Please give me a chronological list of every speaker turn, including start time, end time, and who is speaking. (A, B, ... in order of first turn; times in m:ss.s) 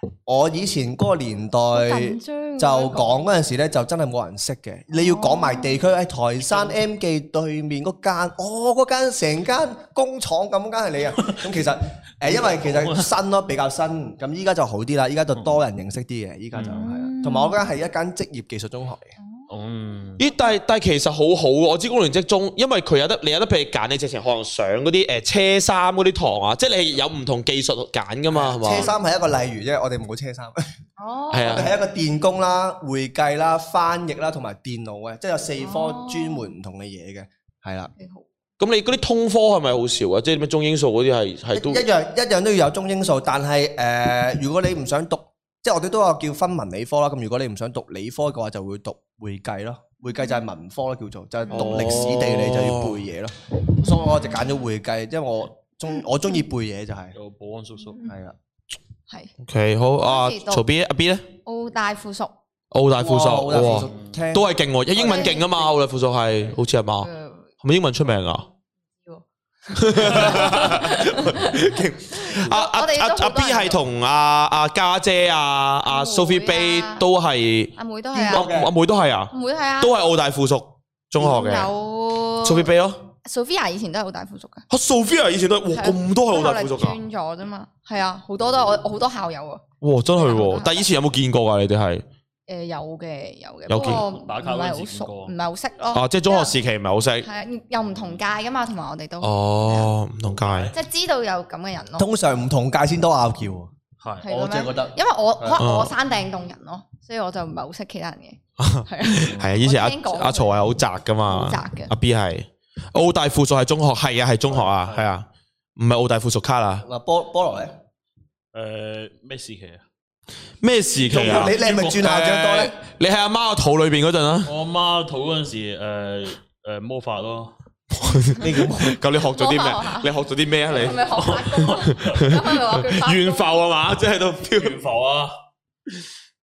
0:00.2-0:19.1 A
0:01.7-0:03.2 B
0:04.9-0:05.7 B
0:12.6-0:13.1 C
0:16.5-0:16.8 C
0:16.7-0:17.6 B
0:19.2-0:19.5 B
0:19.5-0:20.2 C
0:20.2-0:28.9 D
0:28.3-0:30.6 A
0:28.7-0:28.9 B
0:31.0-0:31.7 B
0:31.3-0:31.7 D
0:31.4-0:37.9 A
0:35.6-0:36.5 B
0:38.0-0:38.2 B
0:38.6-0:41.8 D
0:41.5-0:57.1 A
0:51.4-0:51.8 B
0:51.5-0:53.0 D
0:53.9-0:54.3 B
0:57.1-0:58.0 C
0:58.0-0:58.3 A
0:59.4-1:01.2 D
1:00.0-1:00.6 B
1:01.4-1:02.3 B
1:02.7-1:07.1 D
1:03.0-1:05.3 A
1:03.7-1:04.2 C
1:05.0-1:05.7 B
1:07.0-1:07.5 B
1:07.6-1:08.5 D
1:09.7-1:11.6 B
1:09.7-1:21.7 D
1:12.2-1:13.8 B
1:15.8-1:17.0 B
1:17.8-1:18.5 B
1:18.2-1:18.7 A
1:19.3-1:20.0 B
1:21.2-1:22.7 B
1:22.4-1:23.0 D
1:23.2-1:24.7 B
1:24.7-1:27.0 D
1:25.7-1:29.6 B
1:29.8-1:32.0 D
1:30.1-1:30.9 B
1:32.5-1:36.5 B
1:33.7-1:34.0 D
1:33.8-1:35.3 C
1:35.9-1:37.2 D
1:37.2-1:39.9 B
1:39.2-1:40.7 D
1:40.3-1:40.7 C
1:40.7-1:42.1 B
1:42.0-1:43.7 A
1:44.0-1:44.3 C
1:44.2-1:50.7 B
1:44.3-1:45.6 A
1:45.6-1:45.9 D
1:48.6-1:56.8 D
1:51.2-1:51.9 B
1:54.5-1:55.1 C
1:56.8-1:57.8 A
1:58.5-1:59.8 C
2:00.6-2:04.5 D
2:01.1-2:02.7 A
2:01.1-2:02.0 C
2:04.4-2:07.5 C
2:07.9-2:11.1 D
2:08.4-2:09.0 A
2:09.3-2:10.1 B
2:10.7-2:13.6 B
2:11.1-2:12.2 C
2:11.6-2:14.8 D
2:14.5-2:15.3 C